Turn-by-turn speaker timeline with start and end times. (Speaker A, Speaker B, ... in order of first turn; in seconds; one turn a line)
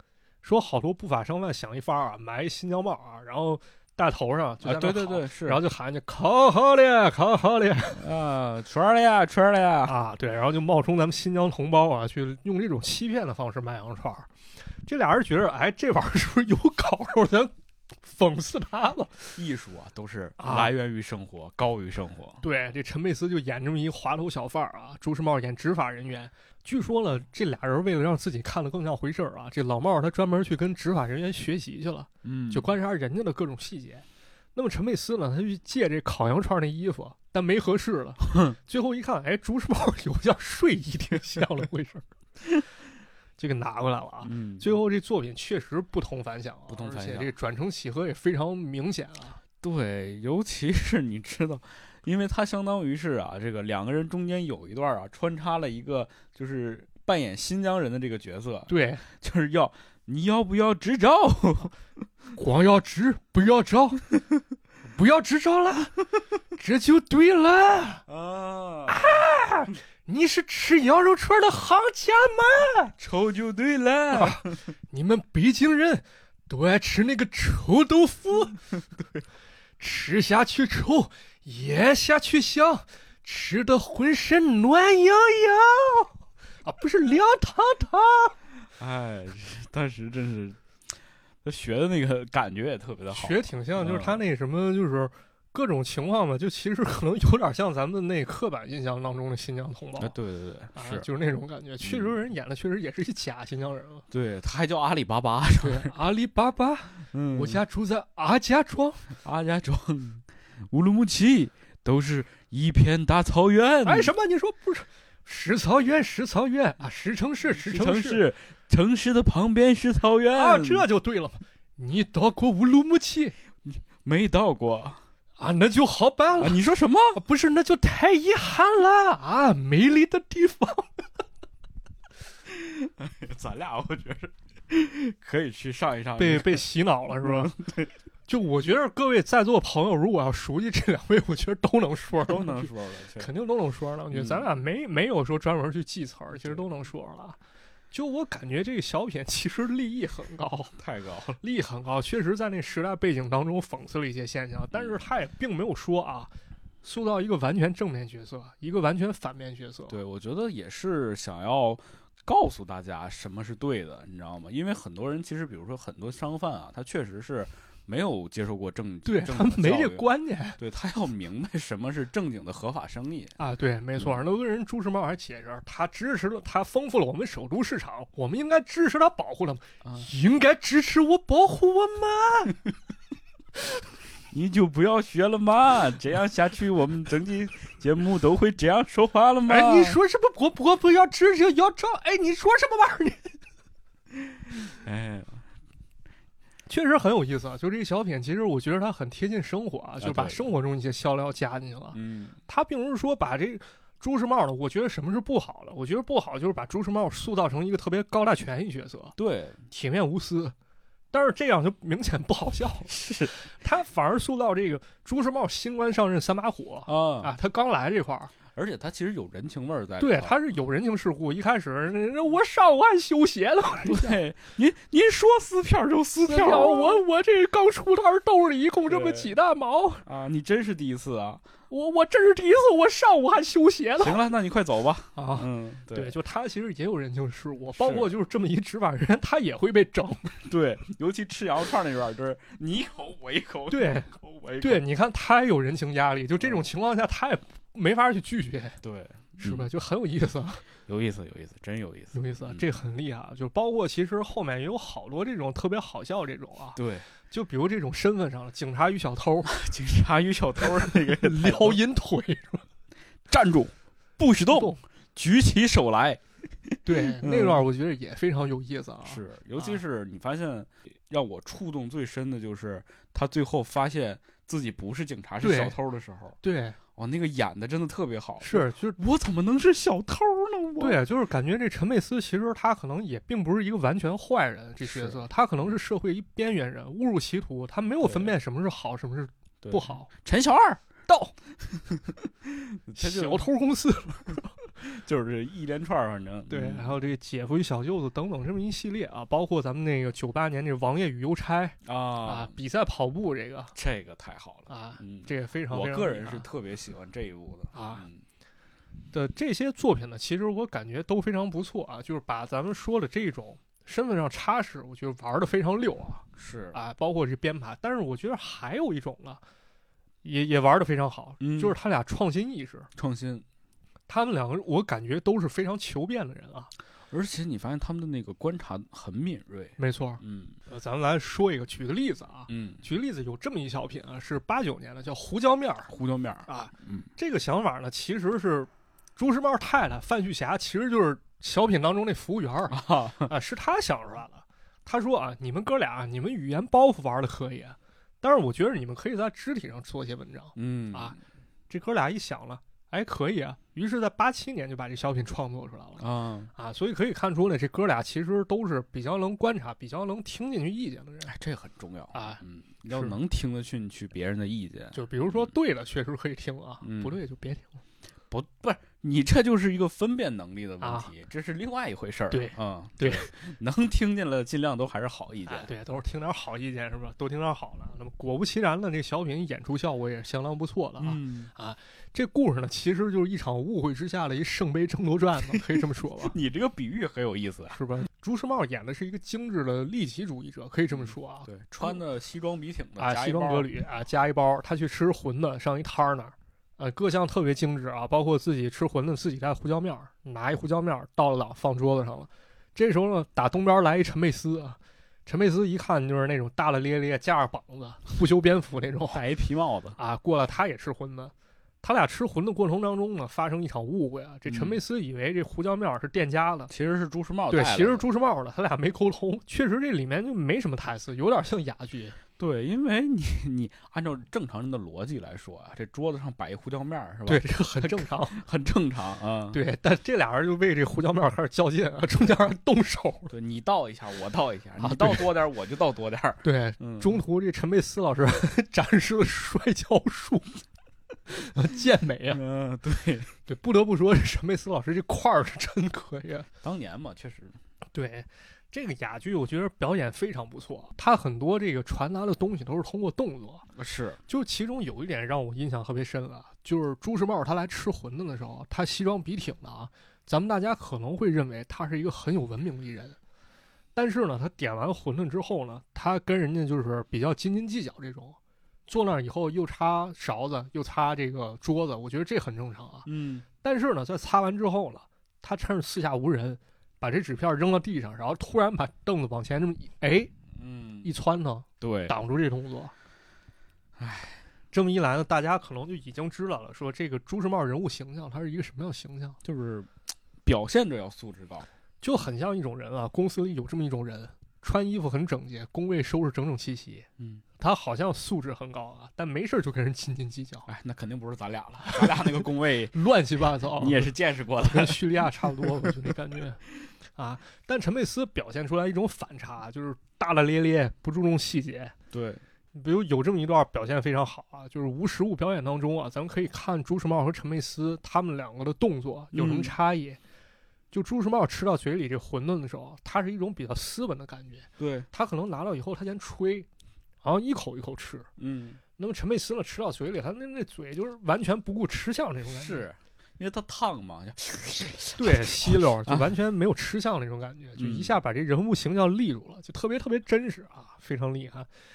Speaker A: 0.4-8.0
Speaker B: 4.6-5.6
Speaker B: 7.9-9.9
Speaker A: 9.8-14.3
Speaker A: 14.9-17.5
Speaker A: 18.0-19.3
Speaker B: 19.3-22.4
Speaker A: 20.4-20.7
Speaker A: 22.4-42.1
Speaker B: 32.2-32.7
Speaker A: 43.4-49.4
Speaker B: 44.2-44.7
Speaker B: 46.7-47.3
Speaker B: 49.6-61.7
Speaker A: 58.7-59.0
Speaker A: 62.4-64.1
Speaker A: 64.9-66.0
Speaker A: 66.5-68.0
Speaker B: 68.1-69.2
Speaker A: 68.9-72.9
Speaker B: 73.0-74.5
Speaker A: 74.1-78.6
Speaker B: 78.7-79.2
Speaker A: 79.8-86.1
Speaker A: 86.6-88.4
Speaker B: 88.8-90.6
Speaker B: 91.4-94.2
Speaker A: 93.1-100.1
Speaker B: 100.0-101.1
Speaker A: 100.7-104.0
Speaker B: 101.8-102.1
Speaker B: 104.1-105.9
Speaker A: 105.6-109.1
Speaker B: 107.1-107.6
Speaker B: 109.2-114.1
Speaker A: 113.8-118.2
Speaker B: 117.6-120.9
Speaker A: 120.3-123.3
Speaker B: 123.6-125.0
Speaker A: 125.4-126.6
Speaker B: 126.4-127.2
Speaker A: 127.1-131.0
Speaker B: 132.5-136.6
Speaker A: 136.2-137.5
Speaker B: 137.2-137.9
Speaker A: 138.3-147.4
Speaker B: 142.2-143.3
Speaker B: 144.1-144.4
Speaker A: 147.9-150.7
Speaker B: 150.8-151.4
Speaker A: 151.4-156.3
Speaker A: 156.8-160.0
Speaker B: 159.9-173.3
Speaker A: 169.1-170.6
Speaker A: 173.4-182.6
Speaker B: 184.3-190.0
Speaker A: 189.5-193.4
Speaker B: 194.3-195.4
Speaker A: 196.7-209.2
Speaker B: 200.0-200.5
Speaker B: 201.9-202.4
Speaker B: 209.2-209.6
Speaker A: 209.7-210.5
Speaker A: 211.1-218.3
Speaker B: 212.9-213.3
Speaker B: 216.9-217.3
Speaker B: 218.5-220.4
Speaker A: 220.0-224.2
Speaker B: 223.8-227.0
Speaker A: 226.2-230.0
Speaker B: 228.9-229.3
Speaker B: 230.0-231.4
Speaker A: 231.7-234.2
Speaker B: 234.0-236.2
Speaker A: 235.2-240.4
Speaker B: 237.8-238.1
Speaker B: 240.4-244.8
Speaker A: 243.7-248.8
Speaker B: 246.4-246.7
Speaker B: 248.8-249.7
Speaker A: 249.4-250.6
Speaker B: 250.9-252.6
Speaker A: 252.1-259.6
Speaker B: 256.8-257.1
Speaker B: 259.5-261.8
Speaker A: 260.6-262.6
Speaker B: 263.3-267.6
Speaker A: 264.5-264.8
Speaker A: 266.8-269.8
Speaker B: 269.0-276.4
Speaker A: 275.4-275.8
Speaker A: 276.4-276.8
Speaker B: 276.9-281.0
Speaker A: 278.4-279.0
Speaker A: 280.8-290.1
Speaker B: 284.8-285.2
Speaker B: 288.0-288.3
Speaker B: 289.6-290.8
Speaker A: 291.1-291.3
Speaker B: 291.9-293.4
Speaker A: 292.9-294.5
Speaker B: 294.8-296.9
Speaker A: 296.5-303.7
Speaker B: 301.8-302.5
Speaker B: 303.7-308.2
Speaker A: 304.7-306.4
Speaker A: 307.7-308.1
Speaker A: 309.1-319.4
Speaker B: 316.4-316.8
Speaker A: 320.2-322.9
Speaker B: 321.4-321.8
Speaker B: 322.9-323.4
Speaker A: 324.1-326.7
Speaker B: 327.1-330.6
Speaker A: 329.8-335.9
Speaker B: 332.5-332.8
Speaker B: 335.9-337.1
Speaker A: 336.5-351.1
Speaker B: 342.7-343.3
Speaker B: 350.6-351.2
Speaker A: 351.7-356.0
Speaker B: 356.0-356.5
Speaker A: 356.5-361.3
Speaker B: 361.2-365.5
Speaker A: 362.1-363.1
Speaker A: 364.9-367.8
Speaker B: 366.8-367.2
Speaker B: 368.3-375.7
Speaker A: 370.8-371.1
Speaker A: 372.3-373.3
Speaker A: 375.5-386.4
Speaker B: 381.0-381.5
Speaker B: 386.2-387.8
Speaker A: 387.7-392.0
Speaker B: 390.9-393.7
Speaker A: 393.0-409.2
Speaker B: 409.1-410.0
Speaker A: 410.0-416.7
Speaker B: 414.4-414.8
Speaker B: 416.7-418.1
Speaker A: 417.5-422.2
Speaker B: 422.4-429.6
Speaker A: 427.2-428.4
Speaker A: 429.5-433.3
Speaker B: 433.3-437.2
Speaker A: 434.8-435.3
Speaker A: 436.4-440.5
Speaker A: 441.3-442.4
Speaker B: 442.3-443.3
Speaker A: 443.4-446.5
Speaker B: 446.6-447.6
Speaker A: 447.9-453.7
Speaker B: 453.8-454.2
Speaker A: 454.3-463.2
Speaker A: 463.9-473.1
Speaker B: 473.1-473.4
Speaker A: 473.6-480.3
Speaker B: 480.5-481.1
Speaker A: 481.0-482.9
Speaker B: 481.8-482.2
Speaker B: 484.0-484.4
Speaker A: 484.7-489.4
Speaker B: 489.4-489.9
Speaker B: 490.4-491.7
Speaker A: 492.0-497.1
Speaker B: 497.2-497.4
Speaker A: 497.6-500.7
Speaker B: 500.7-502.9
Speaker A: 501.8-502.4
Speaker A: 502.9-506.6
Speaker B: 503.8-506.1
Speaker A: 507.1-511.9
Speaker B: 512.1-512.4
Speaker A: 512.7-520.2
Speaker B: 519.3-519.7
Speaker A: 520.9-526.7
Speaker B: 524.8-525.1
Speaker A: 527.2-528.3
Speaker B: 528.4-528.8
Speaker A: 529.0-532.8
Speaker B: 532.5-536.3
Speaker A: 535.2-541.7
Speaker B: 537.8-538.1